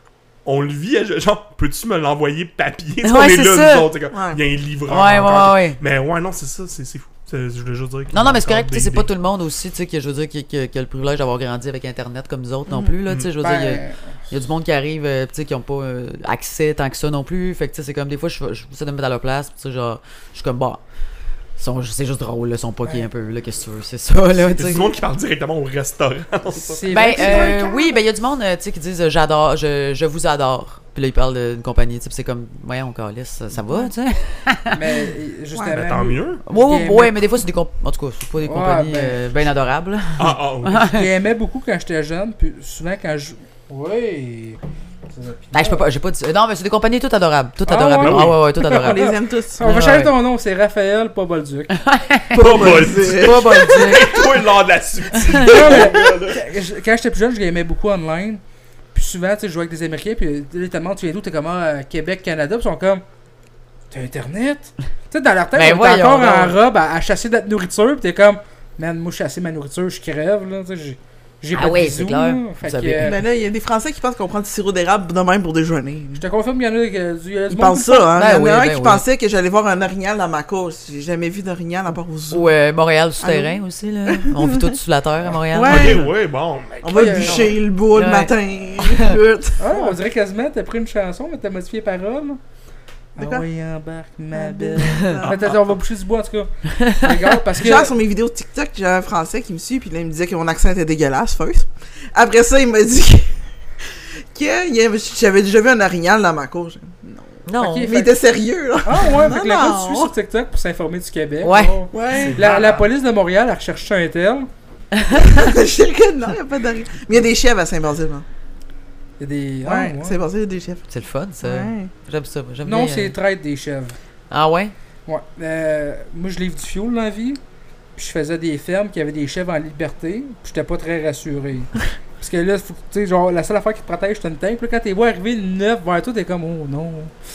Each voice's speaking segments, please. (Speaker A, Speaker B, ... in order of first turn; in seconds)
Speaker A: 0.4-9.1, 24.5-26.8, 35.7-36.4, 40.2-40.9, 48.0-48.4, 52.3-56.4, 85.6-87.6, 112.2-112.7
Speaker B: 3.0-3.9, 4.9-5.8, 8.1-20.8, 21.6-24.9, 26.9-34.8, 36.5-41.0, 45.5-49.1, 49.6-50.1, 51.7-54.3, 55.2-55.5, 65.5-66.6, 71.5-73.2, 78.1-79.0, 82.3-86.0, 87.9-89.2, 94.8-95.2, 96.7-97.1, 107.5-108.0, 111.4-111.7, 114.9-115.5, 120.9-123.1, 124.3-124.7
Speaker C: 4.1-4.4, 12.7-12.9, 27.1-28.0, 35.5-35.8, 48.7-49.6, 52.3-53.9, 73.0-76.2, 77.5-82.5, 83.2-84.8, 85.3-86.1, 86.8-90.0, 93.2-93.5, 94.3-95.5, 97.5-103.3, 104.3-110.1, 111.9-112.8, 115.1-118.2, 119.6-120.8, 121.4-121.9
Speaker D: 13.4-14.0, 26.5-27.7, 34.7-37.2, 38.4-39.2, 40.9-44.6, 45.1-45.8, 47.6-51.8, 55.4-58.4, 58.9-63.0, 63.9-73.2, 76.2-78.1, 86.9-87.5, 89.6-92.4, 93.1-97.9, 107.6-108.2, 108.8-114.5, 119.2-120.2, 122.6-124.0, 125.0-127.4, 127.9-137.1